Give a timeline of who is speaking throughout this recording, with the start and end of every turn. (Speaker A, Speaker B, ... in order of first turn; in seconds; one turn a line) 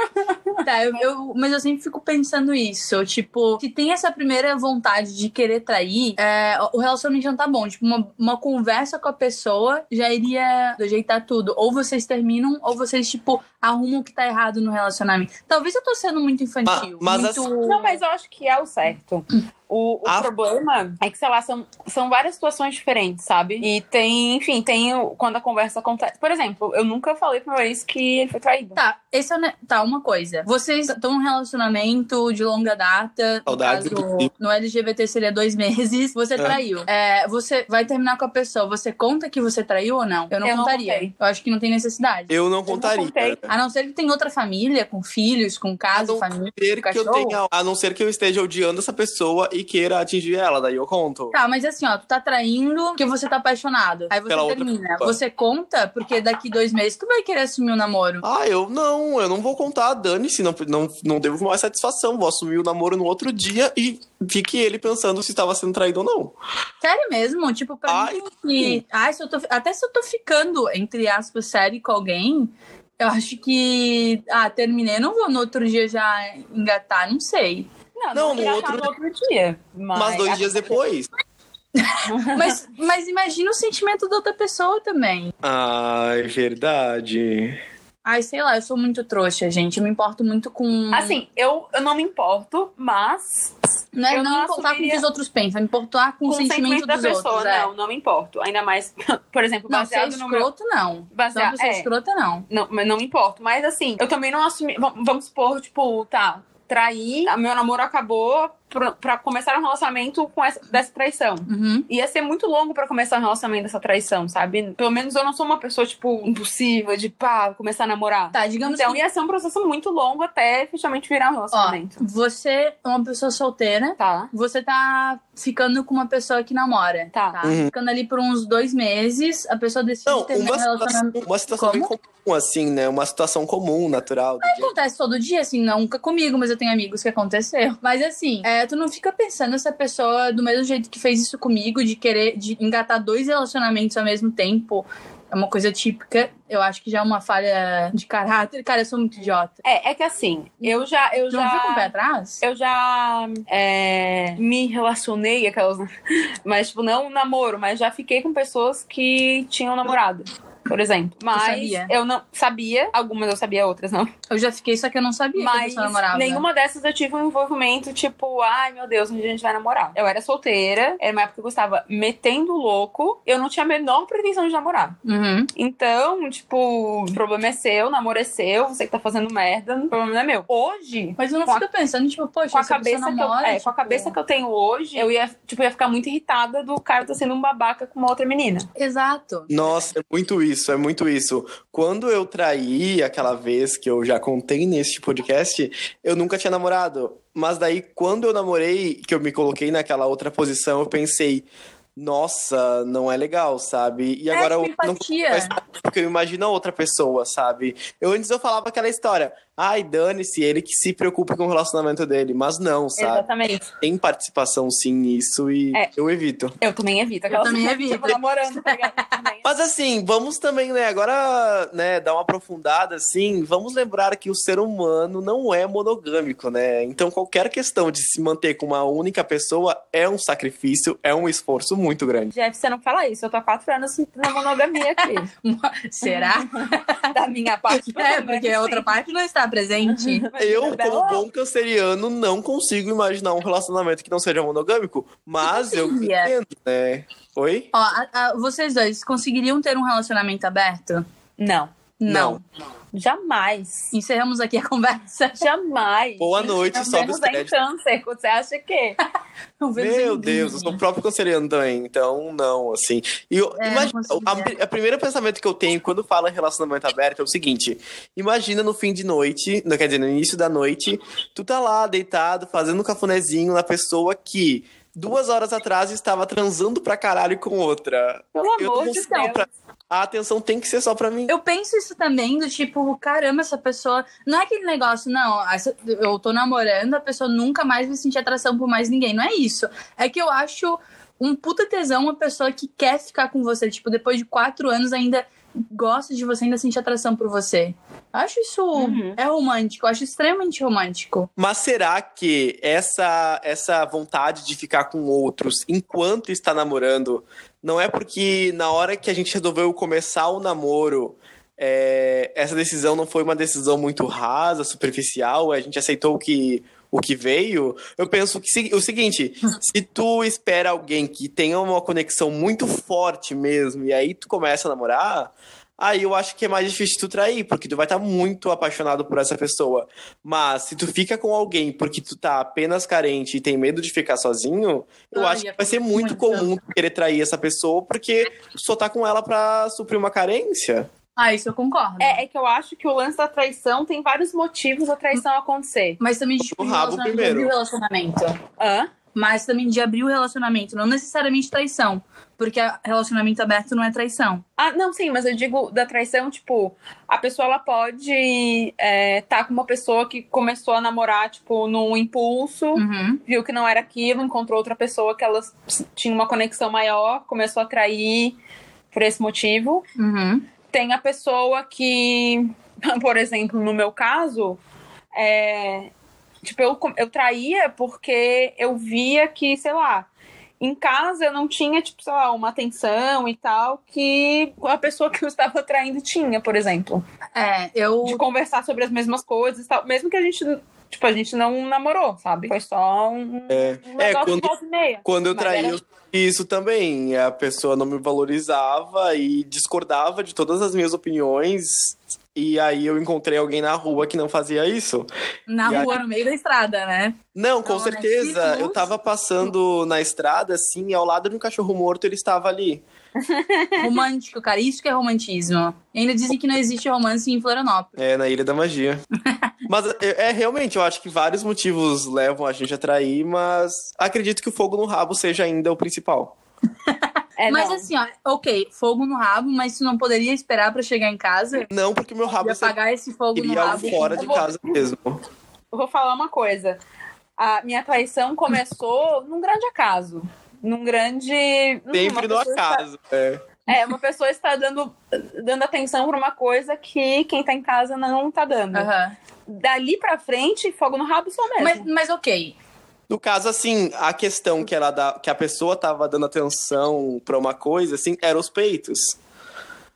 Speaker A: 0.6-18.0
Speaker B: 16.6-17.4
Speaker C: 17.6-28.8
Speaker B: 20.0-20.3
Speaker A: 28.8-42.3
Speaker B: 33.5-34.3
Speaker C: 40.4-41.1
Speaker B: 42.3-43.5
Speaker C: 42.7-43.4
Speaker A: 43.5-47.4
Speaker B: 45.9-51.3
Speaker A: 51.3-58.2
Speaker B: 54.3-55.1
Speaker B: 58.2-66.3
Speaker A: 66.8-77.7
Speaker B: 67.9-68.8
Speaker C: 78.0-80.7
Speaker B: 78.1-78.9
Speaker B: 79.9-81.1
Speaker A: 81.8-85.3
Speaker C: 82.1-82.5
Speaker B: 85.4-87.6
Speaker A: 88.0-91.2
Speaker C: 90.9-93.5
Speaker A: 93.9-97.7
Speaker C: 94.1-95.0
Speaker C: 96.3-100.5
Speaker A: 99.7-102.5
Speaker C: 101.1-101.9
Speaker C: 102.5-122.0
Speaker A: 111.5-111.9
Speaker A: 118.3-119.0
Speaker A: 121.5-131.9
Speaker C: 124.0-124.3
Speaker B: 127.4-127.7
Speaker B: 130.1-134.7
Speaker A: 134.4-149.6
Speaker C: 149.6-155.9
Speaker A: 151.3-152.4
Speaker C: 156.4-164.1
Speaker A: 161.3-161.9
Speaker A: 164.3-166.4
Speaker C: 165.3-175.0
Speaker A: 175.0-175.5
Speaker C: 175.5-181.6
Speaker A: 181.2-184.1
Speaker C: 182.5-188.7
Speaker A: 188.8-189.7
Speaker B: 189.5-213.3
Speaker A: 204.3-205.5
Speaker C: 213.0-213.7
Speaker B: 213.8-216.6
Speaker C: 216.6-219.4
Speaker A: 217.3-219.1
Speaker B: 219.4-232.3
Speaker C: 232.3-235.3
Speaker A: 235.0-237.1
Speaker C: 236.0-238.9
Speaker A: 237.7-240.2
Speaker C: 239.8-241.2
Speaker B: 240.4-247.7
Speaker A: 245.4-246.3
Speaker A: 247.7-251.0
Speaker C: 251.4-251.7
Speaker A: 252.0-252.4
Speaker B: 252.1-252.4
Speaker C: 252.9-253.9
Speaker A: 253.9-255.4
Speaker C: 255.4-259.0
Speaker B: 256.2-257.5
Speaker A: 259.6-260.8
Speaker B: 259.8-281.3
Speaker A: 263.6-264.5
Speaker C: 278.3-279.5
Speaker A: 281.3-301.3
Speaker C: 298.7-299.2
Speaker B: 301.4-340.9
Speaker A: 335.1-336.5
Speaker A: 341.1-342.2
Speaker C: 342.0-346.0
Speaker A: 346.0-348.4
Speaker B: 346.5-347.5
Speaker C: 348.6-348.9
Speaker A: 349.1-354.4
Speaker C: 354.6-368.4
Speaker A: 362.7-363.2
Speaker C: 368.9-369.9
Speaker A: 370.0-370.5
Speaker C: 370.7-374.6
Speaker C: 375.1-375.9
Speaker C: 376.4-380.1
Speaker C: 380.6-387.0
Speaker A: 387.3-388.2
Speaker C: 388.0-395.8
Speaker B: 393.5-394.5
Speaker B: 395.0-405.1
Speaker A: 405.5-408.9
Speaker B: 405.6-405.9
Speaker C: 405.6-405.9
Speaker B: 407.3-412.8
Speaker C: 413.1-413.9
Speaker A: 413.8-417.9
Speaker B: 418.0-419.0
Speaker B: 419.7-426.3
Speaker C: 427.4-427.9
Speaker A: 427.5-431.7
Speaker B: 431.7-432.8
Speaker A: 432.4-434.4
Speaker B: 433.3-435.2
Speaker C: 433.8-434.8
Speaker C: 435.7-436.8
Speaker C: 437.4-442.8
Speaker B: 441.9-443.4
Speaker C: 443.7-448.9
Speaker A: 448.7-449.1
Speaker C: 449.5-451.9
Speaker A: 451.6-452.5
Speaker B: 453.1-459.2